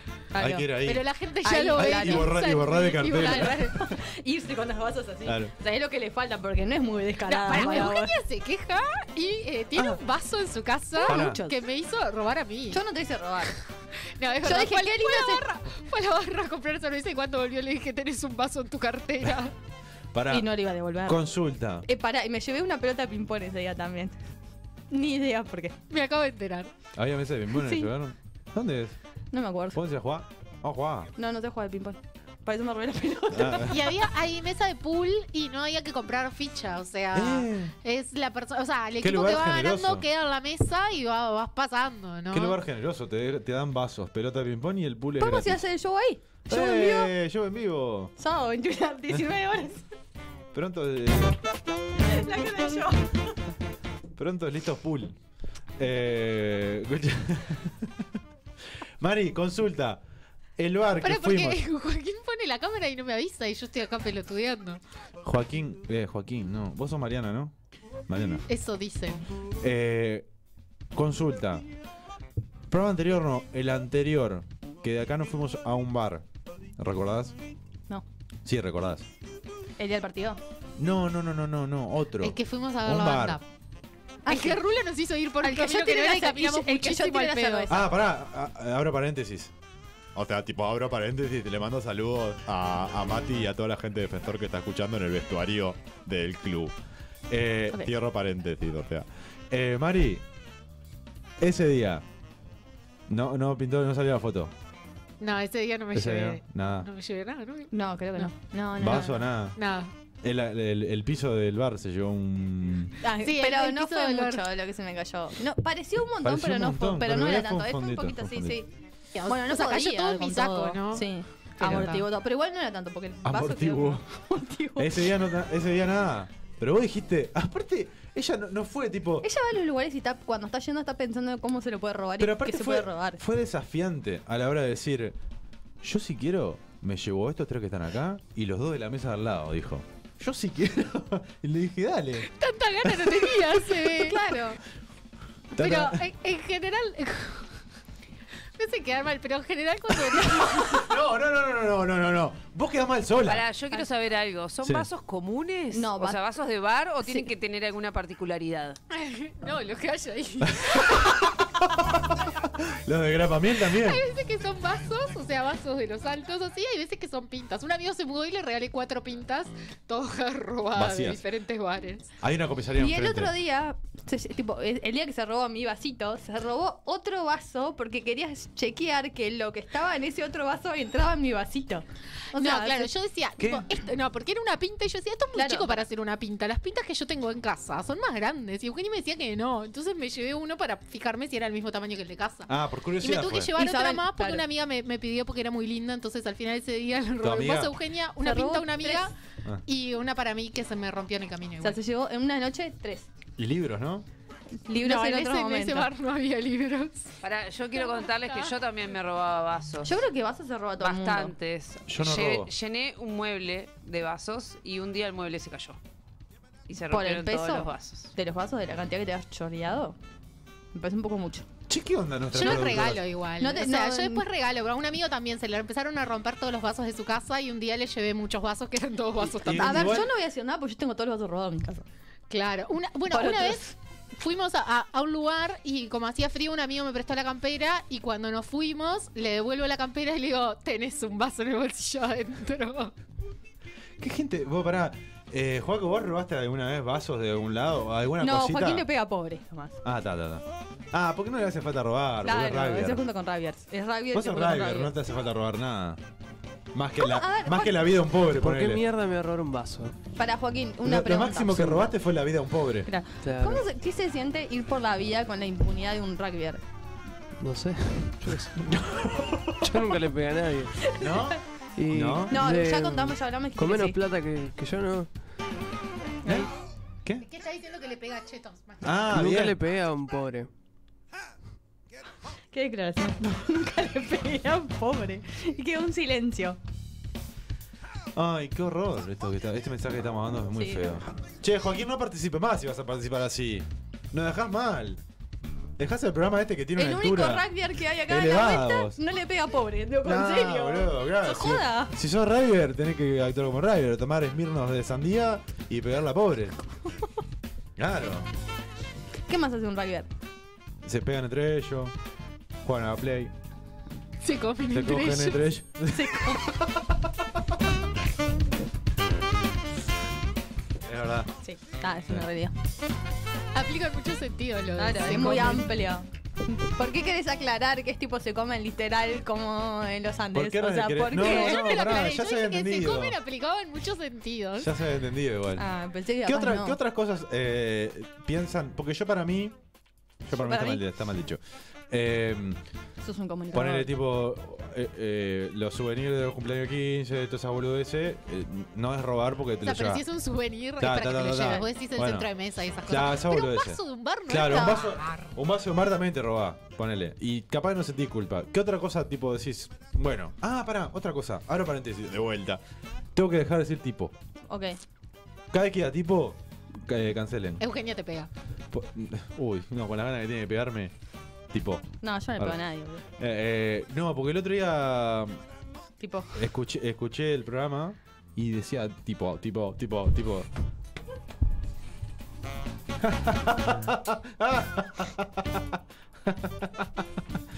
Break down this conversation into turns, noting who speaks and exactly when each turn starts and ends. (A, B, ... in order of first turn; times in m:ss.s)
0:00.3-0:00.7 A
0:00.4-0:01.1 B
0:00.8-0:03.8 C
0:01.4-0:08.1 A
0:01.7-0:03.8 B
0:05.2-0:05.5 B
0:07.3-0:12.8 C
0:09.8-0:10.0 B
0:11.0-0:11.6 A
0:11.0-0:11.4 B
0:12.7-0:13.5 A
0:14.2-0:19.5 C
0:14.4-0:15.4 A
0:20.1-0:21.9 B
0:20.3-0:21.2 A
0:21.8-0:24.2 A
0:24.9-0:25.8 A
0:25.9-0:26.7 C
0:27.0-0:29.0 B
0:27.5-0:27.9 A
0:29.3-0:29.8 A
0:29.7-0:31.1 B
0:31.2-0:33.8 A
0:33.3-0:33.8 B
0:33.7-0:42.6 C
0:37.1-0:37.7 B
0:39.0-0:40.0 B
0:42.3-0:45.6 B
0:45.2-0:47.1 A
0:46.5-0:48.1 B
0:48.2-0:49.8 A
0:50.5-0:51.4 B
0:52.0-0:53.2 A
0:54.2-0:55.2 B
0:55.8-0:58.1 B
0:59.0-1:00.0 B
1:00.6-1:01.6 B
1:01.0-1:04.8 C
1:05.2-1:07.5 B
1:08.1-1:08.4 B
1:08.5-1:09.2 C
1:09.6-1:10.3 B
1:10.9-1:11.7 B
1:12.7-1:16.2 B
1:16.8-1:17.4 B
1:18.4-1:19.1 B
1:19.8-1:20.4 A
1:20.8-1:23.4 B
1:22.2-1:23.4 C
1:24.3-1:24.6 A
1:24.3-1:27.8 C
1:25.4-1:27.9 A
1:27.7-1:29.5 B
1:30.2-1:36.8 B
1:37.3-1:40.2 B
1:41.4-1:42.0 B
1:43.1-1:44.5 B
1:45.2-1:48.3 C
1:45.9-1:46.9 B
1:47.7-1:49.3 A
1:48.8-1:49.6 B
1:49.6-1:49.9 C
1:50.2-1:53.0 B
1:53.0-1:58.7 A
1:53.2-1:54.4 C
1:56.2-1:58.6 B
1:59.1-2:02.1 C
1:59.3-2:05.1 A
2:01.6-2:01.9 B
2:03.2-2:04.0 B
2:04.8-2:09.3 B
2:09.2-2:13.2 A
2:12.2-2:15.2 B
2:15.8-2:22.3 B
2:22.3-2:24.2 C
2:22.8-2:23.3 B
2:23.8-2:24.6 A
2:25.5-2:26.0 B
2:25.6-2:27.5 C
2:28.6-2:30.9 C
2:30.8-2:33.5 B
2:33.3-2:38.8 D
2:34.6-2:34.9 B
2:35.7-2:36.2 A
2:38.9-2:41.2 C
2:40.4-2:44.0 B
2:43.7-2:52.1 C
2:50.7-2:51.2 B
2:52.2-2:53.3 B
2:52.8-3:02.9 A
3:02.3-3:12.5 C
3:03.4-3:03.7 B
3:05.4-3:05.8 A
3:12.5-3:13.6 B
3:13.0-3:19.1 C
3:13.6-3:14.4 A
3:17.2-3:17.7 B
3:18.2-3:19.1 A
3:19.7-3:21.8 C
3:21.6-3:23.1 A
3:23.4-3:24.1 B
3:24.7-3:25.9 A
3:24.8-3:27.1 C
3:27.2-3:30.0 D
3:27.8-3:28.5 C
3:29.8-3:31.3 A
3:30.8-3:35.8 D
3:31.9-3:32.5 B
3:36.7-3:38.1 D
3:36.9-3:40.0 A
3:40.7-3:41.5 A
3:41.7-3:43.0 B
3:42.3-3:50.1 C
3:43.4-3:44.2 A
3:49.2-3:50.1 B
3:49.6-3:51.8 A
3:52.3-4:02.9 C
3:53.1-3:53.8 A
4:04.0-4:08.9 B
4:08.2-4:09.8 A
4:09.8-4:13.0 B
4:12.2-4:14.9 A
4:14.1-4:16.0 B
4:16.7-4:18.8 B
4:17.0-4:17.9 A
4:18.3-4:20.0 E
4:20.2-4:21.8 A
4:20.8-4:22.9 B
4:22.9-4:26.6 A
4:23.2-4:23.6 E
4:27.4-4:28.8 E
4:28.6-4:29.8 B
4:29.6-4:30.9 E
4:31.0-4:32.4 B
4:31.8-4:35.1 E
4:32.3-4:34.0 A
4:36.2-4:36.5 A
4:36.2-4:36.5 B
4:37.2-4:39.1 C
4:38.8-4:39.6 B
4:39.1-4:40.5 E
4:42.5-4:46.6 A
4:48.2-4:55.0 B
4:50.6-4:51.0 A
4:55.8-4:57.5 B
4:56.8-5:01.9 A
4:58.1-4:59.0 B
5:00.0-5:06.6 B
5:07.8-5:08.3 B
5:09.3-5:10.1 A
5:10.8-5:11.9 B
5:12.6-5:13.3 B
5:14.2-5:15.5 C
5:14.7-5:17.0 B
5:15.9-5:16.4 A
5:20.8-5:21.3 B
5:21.4-5:22.5 A
5:23.5-5:25.7 C
5:24.8-5:31.8 A
5:30.3-5:33.2 B
5:31.1-5:34.7 C
5:34.6-5:35.7 B
5:35.6-5:36.8 A
5:36.2-5:39.6 B
5:40.3-5:42.6 B
5:40.3-5:40.8 A
5:43.0-5:43.9 A
5:43.5-5:50.0 B
5:49.6-5:55.3 C
5:50.8-5:52.3 B
5:52.9-6:02.6 B
5:54.5-5:54.7 A
6:03.2-6:04.1 B
6:04.5-6:04.8 A
6:05.5-6:07.6 B
6:07.6-6:08.3 C
6:08.7-6:10.9 B
6:11.5-6:12.6 B
6:12.0-6:13.0 A
6:13.2-6:15.4 B
6:16.0-6:16.4 A
6:16.4-6:20.5 B
6:23.0-6:27.0 B